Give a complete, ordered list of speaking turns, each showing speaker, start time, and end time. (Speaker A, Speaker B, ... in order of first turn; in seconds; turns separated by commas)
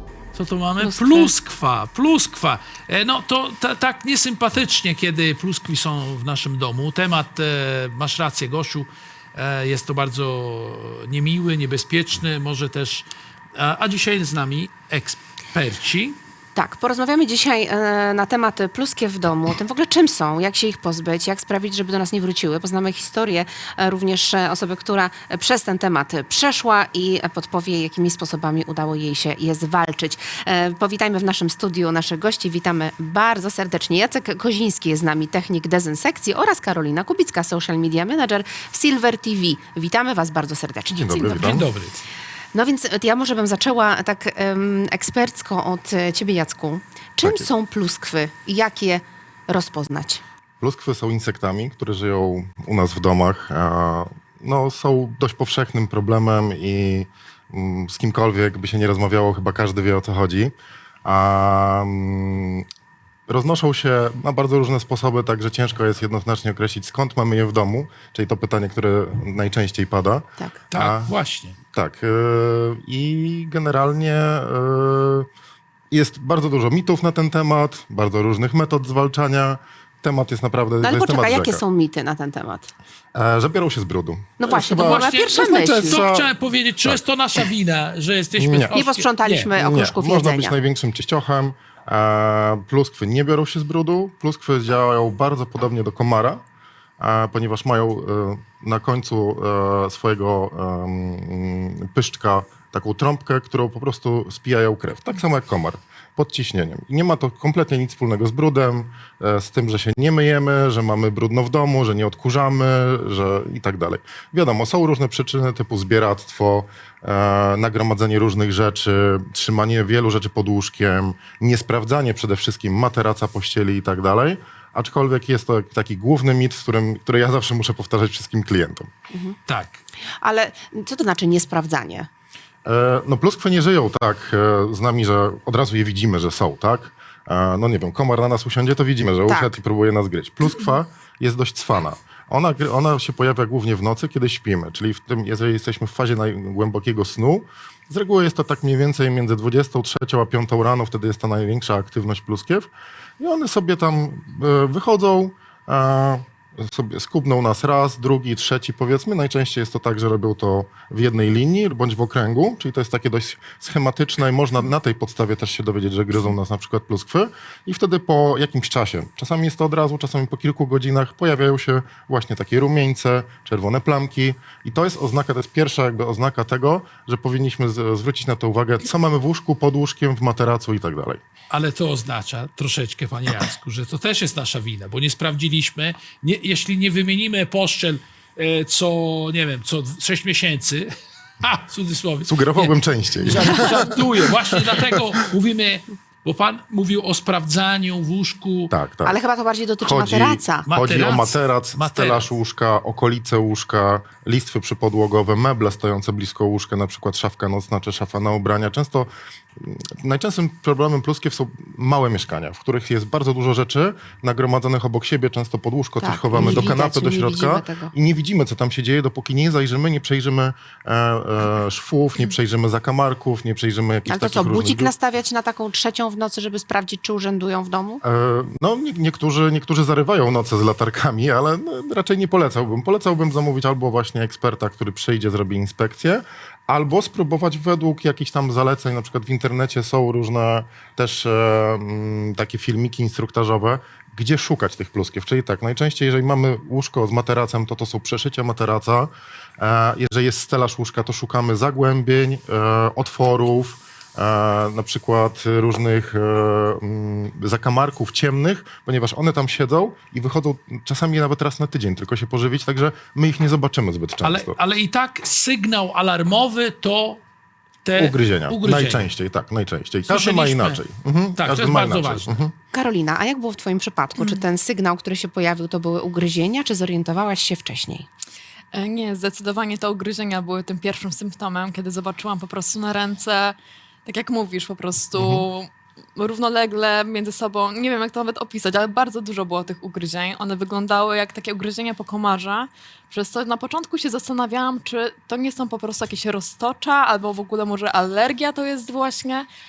Speaker A: 0.3-16.2, Speaker B: 0.8-1.3, Speaker B: 16.5-41.6, Speaker C: 40.9-41.7, Speaker A: 41.4-42.0, Speaker B: 42.5-50.2, Speaker C: 50.6-60.5, Speaker C: 61.0-62.6, Speaker C: 63.3-71.1, Speaker A: 70.7-71.6, Speaker C: 71.7-75.3, Speaker C: 75.9-81.6, Speaker B: 80.8-82.7, Speaker C: 83.1-86.3, Speaker B: 84.4-86.0, Speaker A: 84.8-89.5, Speaker C: 88.4-88.8, Speaker B: 88.7-90.5, Speaker C: 89.5-96.4, Speaker C: 97.0-128.9, Speaker B: 129.1-129.4, Speaker A: 129.5-129.8, Speaker B: 130.2-132.1, Speaker C: 132.6-181.2, Speaker B: 139.3-139.5, Speaker A: 181.5-190.9, Speaker A: 191.4-198.7, Speaker C: 192.2-195.0, Speaker C: 198.7-199.1, Speaker B: 199.0-200.7, Speaker C: 199.8-224.9, Speaker A: 200.7-202.2, Speaker B: 216.0-217.9, Speaker B: 224.1-228.0, Speaker C: 228.0-264.6, Speaker A: 264.2-267.2, Speaker A: 267.8-269.1, Speaker C: 267.9-272.5, Speaker A: 270.1-270.8, Speaker A: 271.4-272.4, Speaker B: 272.7-278.1, Speaker D: 274.2-274.4, Speaker D: 278.7-299.5, Speaker C: 285.1-285.4